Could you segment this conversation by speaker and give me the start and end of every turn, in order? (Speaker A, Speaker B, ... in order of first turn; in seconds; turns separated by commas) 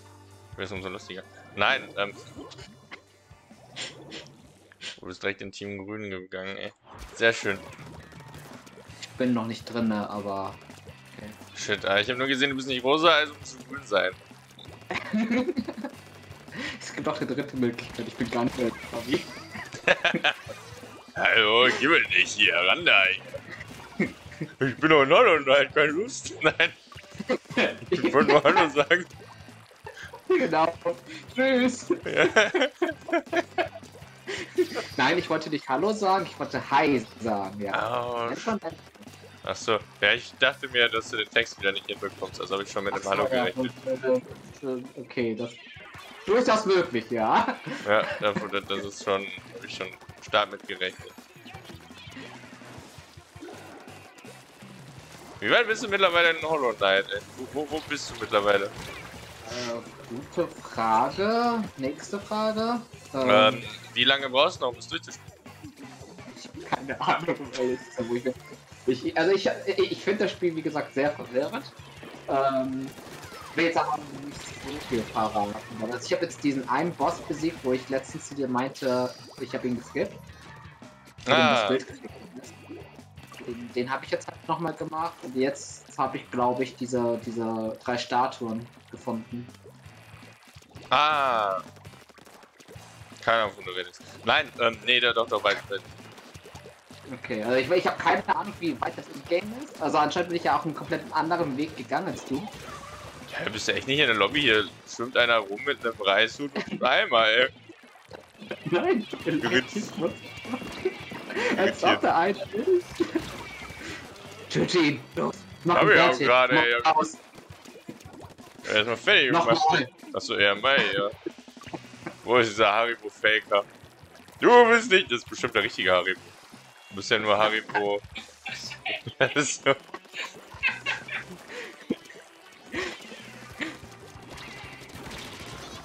Speaker A: 0.6-2.2, Speaker A: 5.0-7.6, Speaker B: 9.1-10.6, Speaker A: 11.5-14.2, Speaker B: 14.9-15.9, Speaker B: 16.5-19.3, Speaker A: 19.8-20.4, Speaker A: 21.2-23.4, Speaker A: 24.6-26.8, Speaker B: 27.3-28.7, Speaker A: 27.9-29.1, Speaker B: 30.3-32.0, Speaker A: 32.0-33.6, Speaker B: 34.3-39.1, Speaker A: 37.7-38.5, Speaker A: 39.4-43.7, Speaker B: 42.9-45.6, Speaker B: 46.2-47.9, Speaker A: 47.8-51.2, Speaker A: 55.4-58.8, Speaker B: 59.5-63.6, Speaker A: 63.2-65.3, Speaker B: 66.3-71.7, Speaker B: 72.3-73.0, Speaker B: 73.5-80.2, Speaker A: 81.3-81.8, Speaker B: 81.3-82.5, Speaker B: 83.4-89.5, Speaker A: 90.9-91.7, Speaker A: 93.2-95.9, Speaker B: 97.1-102.5, Speaker A: 103.3-107.5, Speaker B: 108.5-113.2, Speaker A: 109.4-109.9, Speaker A: 111.6-112.0, Speaker B: 114.5-117.2, Speaker A: 115.7-117.0, Speaker A: 118.7-121.1, Speaker B: 119.3-119.9, Speaker A: 122.2-123.7, Speaker A: 124.4-126.3, Speaker A: 126.9-128.0, Speaker A: 129.2-129.8